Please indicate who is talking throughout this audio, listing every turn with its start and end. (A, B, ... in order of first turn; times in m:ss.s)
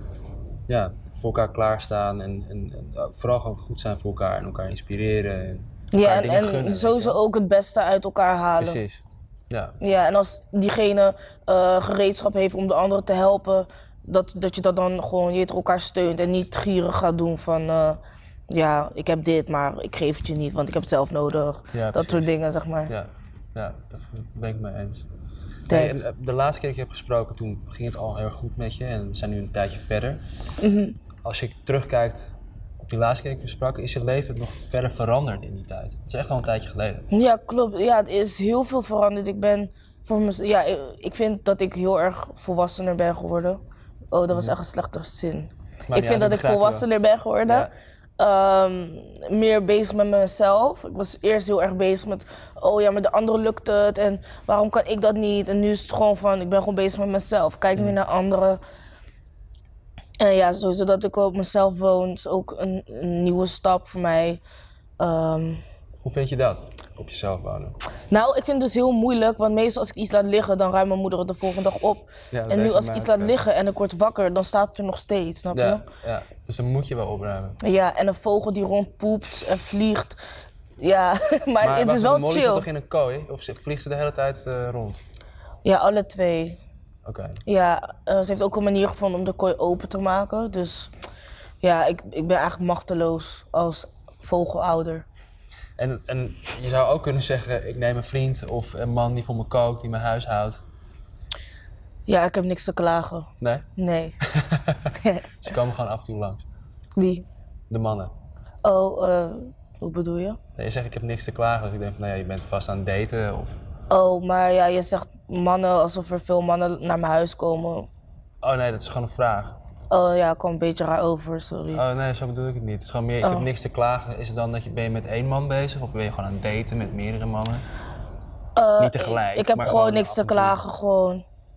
0:00.7-0:07.2 A
0:05.9-0:08.8 B
0:08.6-0:09.8 A
0:09.8-0:22.9 B
0:21.7-0:22.3 A
0:22.9-0:25.0 A
0:25.7-0:26.1 B
0:25.7-0:30.2 A
0:30.6-0:31.0 B
0:31.2-0:37.1 A
0:37.1-0:43.6 B
0:44.1-0:58.6 B
0:45.9-0:46.9 A
0:47.4-0:47.7 A
1:00.2-1:04.4 B
1:05.0-1:05.6 B
1:06.0-1:07.8 A
1:08.1-1:15.8 B
1:12.3-1:13.4 A
1:15.5-1:17.6 A
1:17.6-1:20.2 B
1:20.8-1:22.6 B
1:21.6-1:25.0 A
1:25.6-1:26.6 B
1:27.0-1:27.4 A
1:27.4-1:30.9 B
1:31.6-1:35.0 B
1:35.8-1:40.6 A
1:42.1-1:44.2 B
1:43.4-1:43.7 A
1:44.2-1:46.4 A
1:45.0-1:45.3 B
1:47.0-1:47.2 B
1:47.7-1:48.1 A
1:48.6-1:50.4 B
1:50.6-1:53.6 A
1:53.9-1:57.9 B
1:58.4-1:59.6 A
1:59.9-2:01.8 B
2:01.7-2:07.6 A
2:03.2-2:03.5 B
2:08.6-2:11.2 B
2:08.8-2:10.6 A